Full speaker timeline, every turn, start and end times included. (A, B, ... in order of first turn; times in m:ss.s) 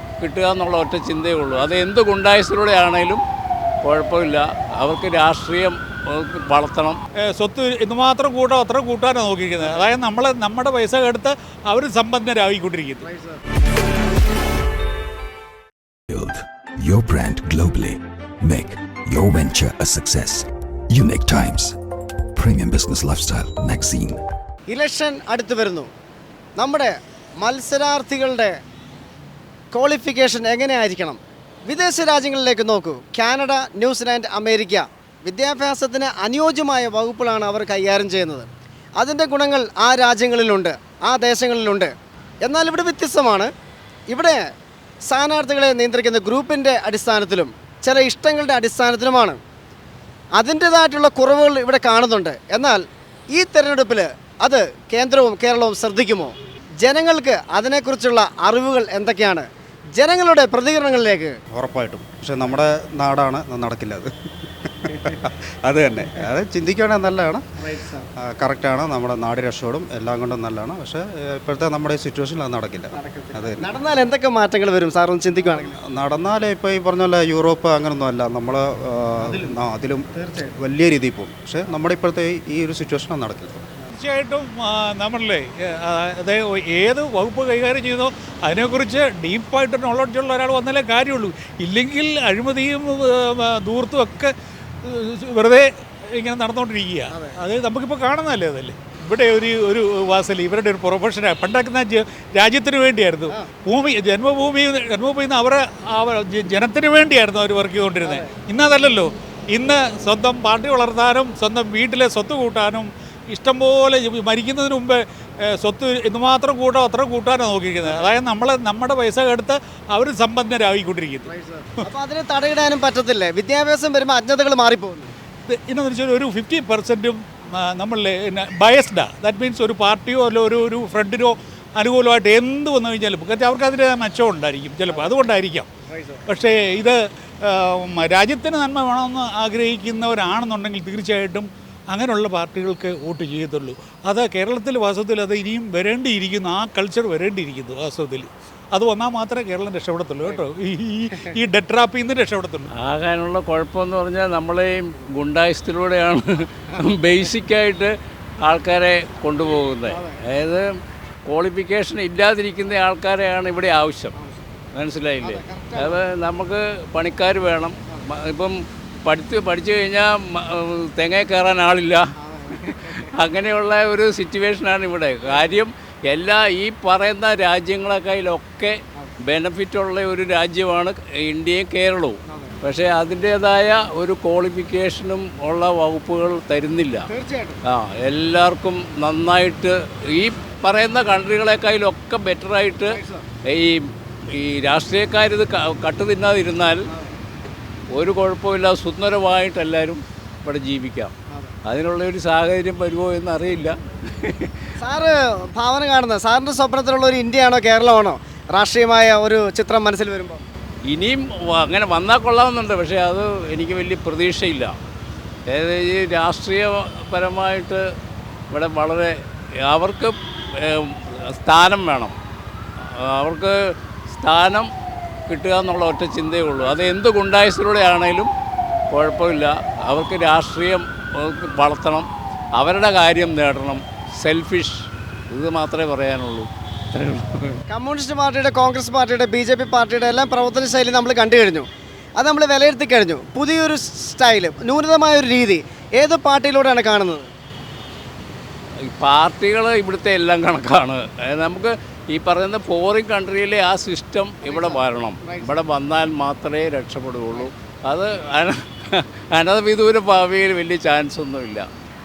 0:00.2-0:03.2 A
0:03.8-0:07.0 A
0:07.4-0:13.1 B
0:13.1-0:13.4 C
0:16.1-0:21.7 D
0:22.4-0:24.2 D
0:24.7-0:25.9 C
0:26.6-0:28.5 C
0:29.7-0:43.5 C
0:44.1-0:44.4 C
0:45.0-0:49.4 C
0:50.4-1:01.4 C
1:01.5-1:04.1 E
1:04.6-1:07.4 E
1:07.8-1:08.0 C
1:08.2-1:13.7 E
1:12.9-1:15.8 C
1:15.5-1:23.6 E
1:23.9-2:01.3 B
1:48.0-1:48.3 C
2:01.3-2:05.1 C
2:05.5-2:15.7 B
2:16.3-2:32.7 B
2:32.8-2:37.9 A
2:38.4-2:40.6 A
2:39.9-2:40.2 C
2:41.3-2:44.2 A
2:44.7-2:48.5 A
2:45.2-2:46.0 C
2:49.0-2:52.0 A
2:52.2-2:53.1 C
2:52.5-3:07.1 A
3:02.3-3:02.5 C
3:07.1-3:07.6 C
3:07.7-3:13.0 A
3:12.9-3:13.2 C
3:13.5-3:13.8 A
3:14.3-3:16.8 A
3:17.9-3:21.1 A
3:21.7-3:24.5 A
3:24.8-3:30.4 C
3:30.9-3:34.7 A
3:35.5-3:37.8 A
3:38.5-3:39.1 A
3:39.7-3:42.1 A
3:43.1-3:43.6 A
3:44.2-3:44.7 A
3:45.3-3:48.3 A
3:48.9-3:52.1 A
3:52.6-3:56.5 A
3:57.0-3:57.6 A
3:57.7-4:07.3 C
4:08.9-4:21.7 A
4:14.4-4:15.5 C